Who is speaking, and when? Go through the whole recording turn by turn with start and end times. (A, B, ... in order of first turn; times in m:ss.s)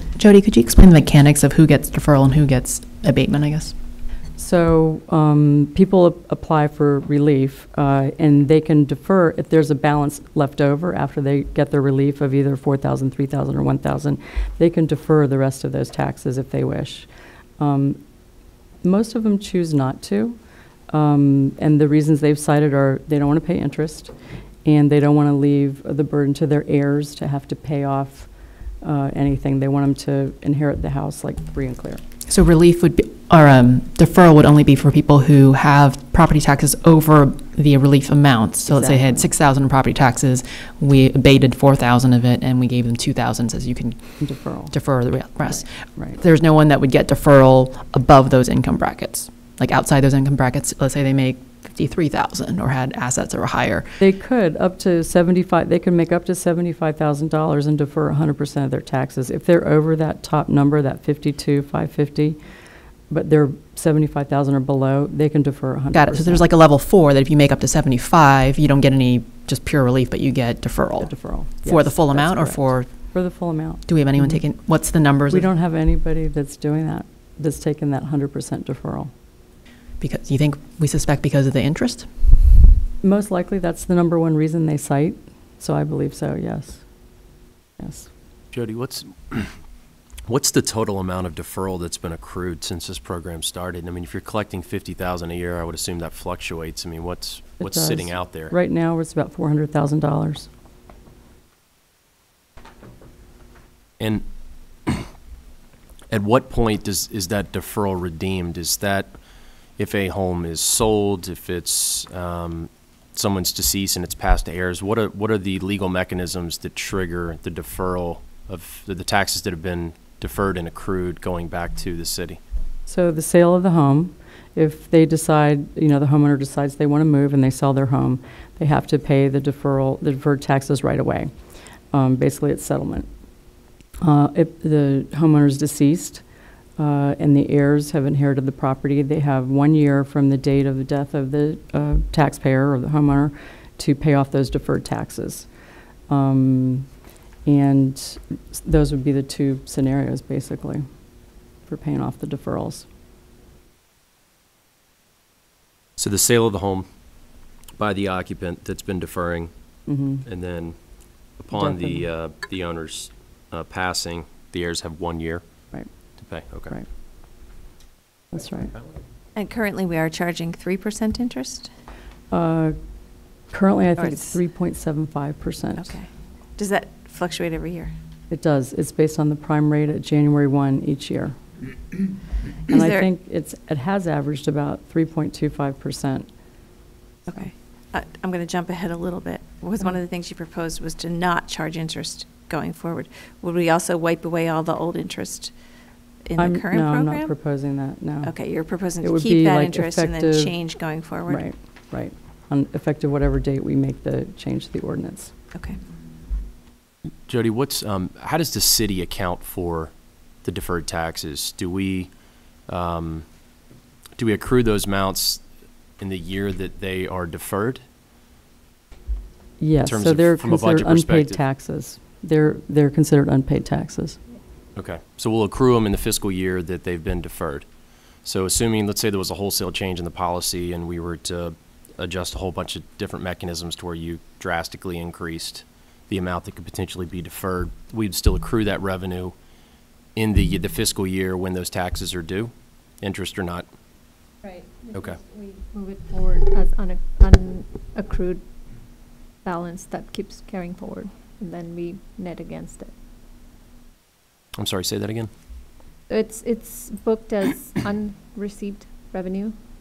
0:00.2-0:03.7 A
0:04.4-0:17.1 B
0:17.6-0:18.0 B
0:18.8-0:20.4 B
0:20.9-0:24.1 B
0:24.6-0:28.3 B
0:28.8-0:32.0 B
0:32.3-0:44.0 A
0:38.7-0:39.2 B
0:44.2-0:44.7 B
0:44.7-0:54.0 A
0:54.0-1:02.4 B
1:03.1-1:06.5 B
1:05.9-1:12.9 A
1:11.0-1:14.4 B
1:13.8-1:15.5 A
1:15.3-1:19.1 B
1:20.0-1:22.1 A
1:23.0-1:26.8 B
1:27.8-1:28.1 B
1:28.5-1:29.6 C
1:30.3-1:38.5 C
1:37.6-1:40.5 B
1:44.0-1:44.2 C
1:46.1-1:49.1 C
1:49.8-2:02.4 C
2:02.9-2:11.3 B
2:11.9-2:13.1 B
2:14.0-2:16.2 B
2:16.8-2:25.5 B
2:26.1-2:26.9 B
2:27.4-2:30.8 B
2:31.6-2:32.8 B
2:36.0-2:36.8 C
2:37.8-2:39.5 C
2:39.9-2:40.2 B
2:40.2-2:40.8 C
2:41.4-2:45.4 C
2:41.5-2:42.0 B
2:46.2-2:46.8 C
2:48.3-2:48.7 B
2:49.4-2:51.7 D
2:52.3-2:52.8 B
2:53.5-2:55.9 B
2:54.0-2:54.3 D
2:55.8-2:57.9 D
2:58.3-3:01.4 B
3:02.7-3:06.3 B
3:02.7-3:03.0 D
3:07.3-3:15.5 D
3:16.2-3:17.3 D
3:16.4-3:18.3 B
3:18.2-3:21.4 D
3:19.0-3:20.5 B
3:21.3-3:25.3 B
3:27.3-3:29.9 C
3:30.4-3:32.1 C
3:32.7-3:33.2 C
3:34.2-3:35.4 C
3:36.0-3:37.8 C
3:39.6-3:44.2 B
3:39.8-3:41.4 C
3:44.8-3:47.6 C
3:48.2-3:59.3 C
4:00.2-4:03.7 C
4:04.4-4:08.4 E
4:04.9-4:05.2 C
4:09.4-4:12.9 E
4:14.6-4:15.3 C
4:16.1-4:19.5 E